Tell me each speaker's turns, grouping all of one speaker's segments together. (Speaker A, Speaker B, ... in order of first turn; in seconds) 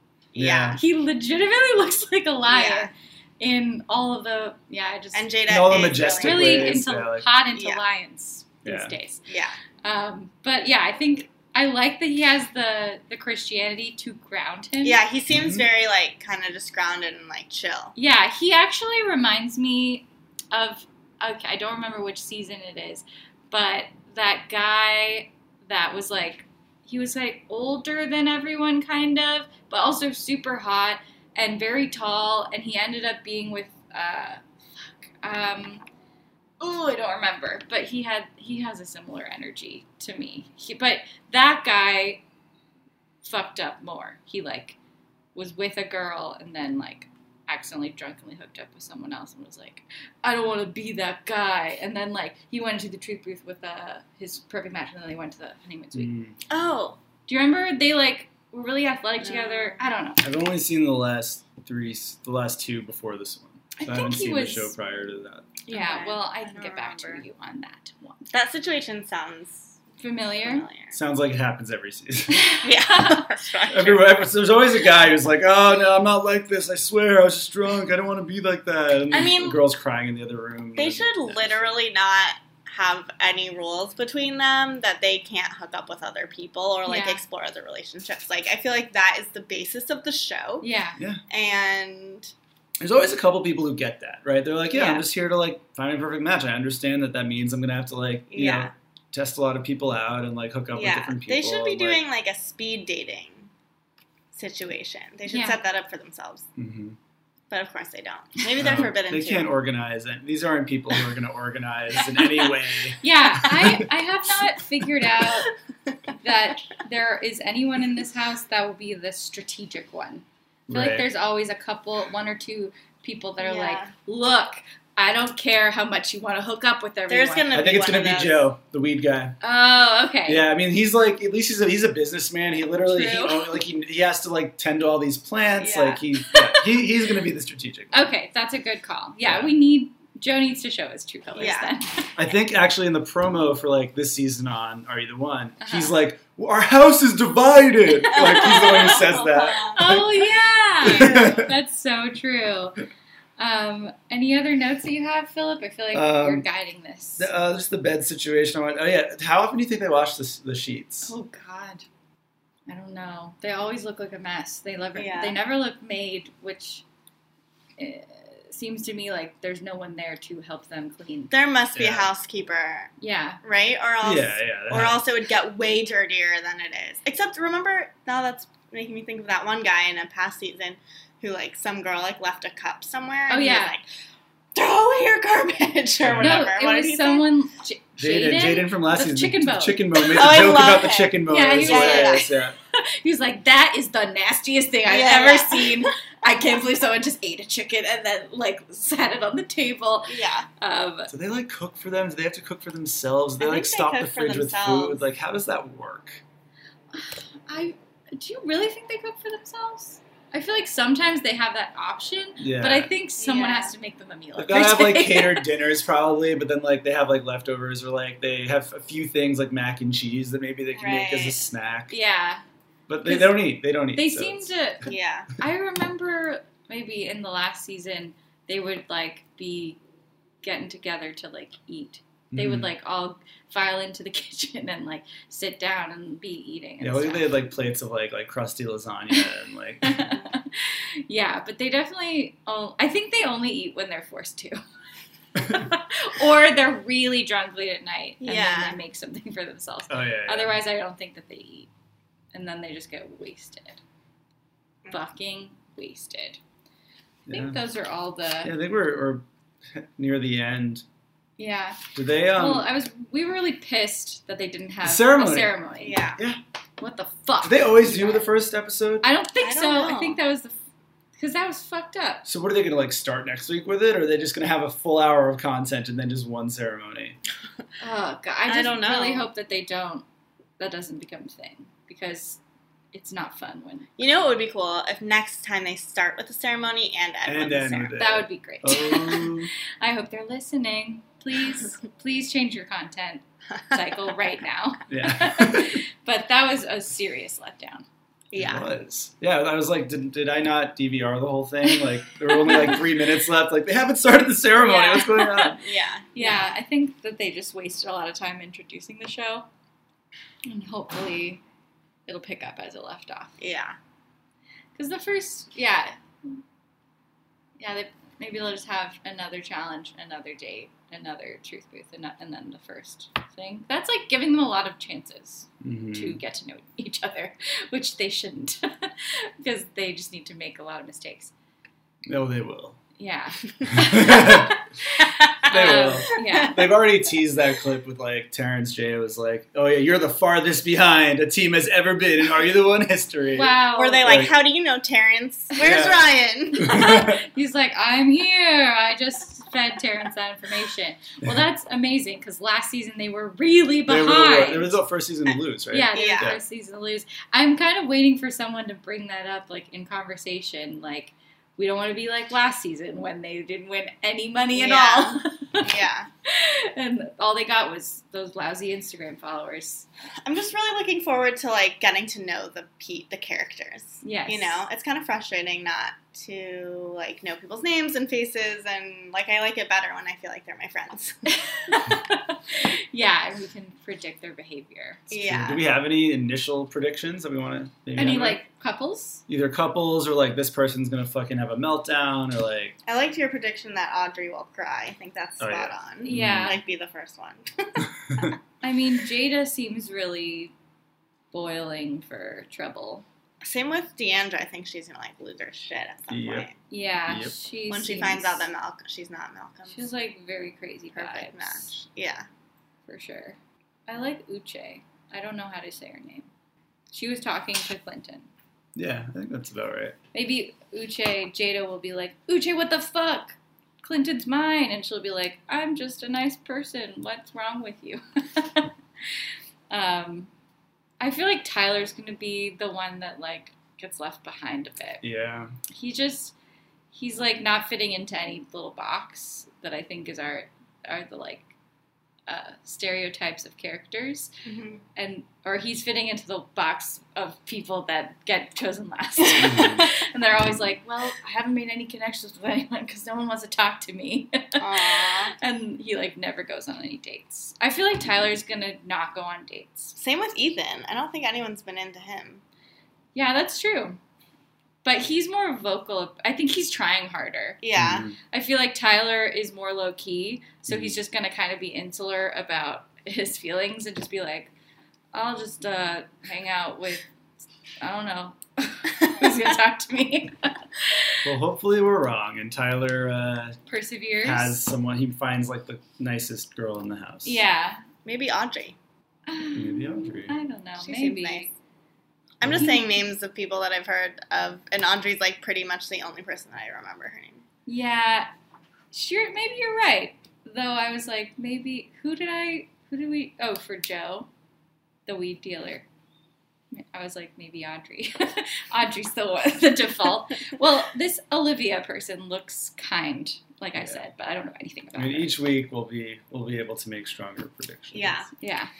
Speaker A: 0.3-0.8, 2.5-2.9, 5.1-6.8, 7.5-7.8, 9.3-9.6, 14.8-17.9, 56.5-57.0, 59.2-59.9, 65.7-67.2, 68.3-69.8, 70.4-71.0, 72.6-74.2, 79.1-79.6, 80.8-90.6, 91.3-92.3, 94.7-95.0, 98.3-98.7, 100.7-103.5, 104.3-106.5, 107.5-109.5, 115.2-115.5, 123.4-123.9, 127.1-128.5, 132.8-133.5, 135.6-136.0, 141.3-141.7, 148.1-149.8, 164.9-165.3, 171.3-172.9, 173.4-183.8, 184.5-187.3, 190.0-192.3, 194.8-195.9, 200.1-200.5, 203.4-205.0, 213.2-213.7, 220.7-221.5, 224.8-225.3, 248.2-248.8, 265.8-266.2, 269.4-270.2, 278.5-279.3, 284.0-288.0, 298.3-298.6, 304.6-306.5, 313.4-313.8, 335.0-336.8, 343.7-346.9, 355.9-356.4, 364.5-366.1, 370.2-381.2, 385.1-385.7, 392.9-398.4, 403.4-406.5, 407.7-409.9, 410.9-412.2, 444.4-444.8, 454.6-455.3, 459.9-462.4, 467.6-468.1, 488.0-488.8, 490.8-491.5, 492.4-497.4, 517.9-518.3
Speaker B: 0.3-0.8, 5.5-7.3, 8.6-8.9, 15.3-15.6, 55.9-56.4, 60.2-65.6, 70.9-72.5, 73.7-81.7, 92.8-102.0, 106.6-107.0, 108.6-113.9, 120.7-121.1, 127.5-129.4, 130.3-138.1, 139.2-139.5, 142.2-150.0, 150.8-151.5, 155.9-156.4, 157.2-161.1, 171.7-172.1, 174.0-175.0, 186.0-186.5, 188.0-192.6, 201.1-206.2, 212.4-212.9, 214.4-222.0, 222.9-224.5, 232.3-232.7, 236.8-240.1, 249.9-250.6, 257.3-257.6, 258.4-260.8, 261.9-262.7, 264.8-265.6, 267.4-269.1, 272.2-277.2, 287.2-289.5, 294.9-295.8, 298.3-305.6, 325.6-326.2, 332.1-332.8, 333.7-334.5, 335.5-344.3, 345.6-346.0, 346.6-347.2, 353.9-356.4, 385.2-388.4, 389.3-392.8, 395.4-396.6, 406.1-406.5, 407.1-407.3, 418.7-420.0, 435.0-435.5, 449.4-449.9, 467.8-468.1, 470.7-470.9, 481.2-483.6, 484.2-487.4, 489.5-490.3, 492.4-492.7, 513.8-514.0, 515.0-518.2
Speaker C: 0.8-5.3, 6.0-9.2, 9.8-15.0, 17.9-34.4, 35.2-35.8, 36.6-42.2, 43.2-44.8, 45.3-56.1, 57.3-60.2, 63.8-64.7, 65.7-68.3, 70.0-70.7, 72.3-73.3, 86.8-87.2, 90.6-91.0, 105.2-105.6, 113.0-115.5, 116.2-127.5, 129.4-130.5, 137.9-142.1, 145.6-145.9, 148.1-148.8, 149.7-152.8, 153.4-157.3, 161.1-161.8, 162.7-166.8, 167.8-171.3, 173.0-173.4, 183.3-183.8, 186.1-190.2, 191.3-201.1, 206.9-215.5, 221.9-222.4, 223.0-229.8, 230.4-237.3, 239.8-244.6, 245.4-251.7, 252.3-253.8, 254.9-256.4, 257.3-258.5, 261.4-261.8, 262.3-266.0, 266.8-268.3, 269.0-270.6, 271.2-272.2, 277.8-280.0, 280.6-282.4, 282.9-283.9, 287.9-297.9, 302.4-302.8, 306.1-309.5, 310.4-311.4, 312.1-313.4, 314.8-316.4, 317.6-331.3, 333.0-336.7, 343.3-344.1, 346.6-354.8, 355.7-365.7, 366.2-369.9, 374.0-374.6, 381.3-385.2, 387.9-389.2, 396.0-396.6, 398.6-400.5, 401.3-403.0, 406.7-408.5, 409.7-411.7, 412.9-416.3, 416.9-418.3, 420.1-429.1, 429.7-430.3, 431.0-435.0, 435.7-436.3, 436.9-441.5, 442.3-444.3, 444.9-459.9, 463.1-464.0, 464.8-467.6, 468.3-474.5, 475.1-477.1, 477.8-481.3, 483.7-484.6, 487.2-487.8, 489.3-491.5, 497.6-498.3, 498.9-504.3, 505.1-505.9, 506.7-515.3, 518.4-518.7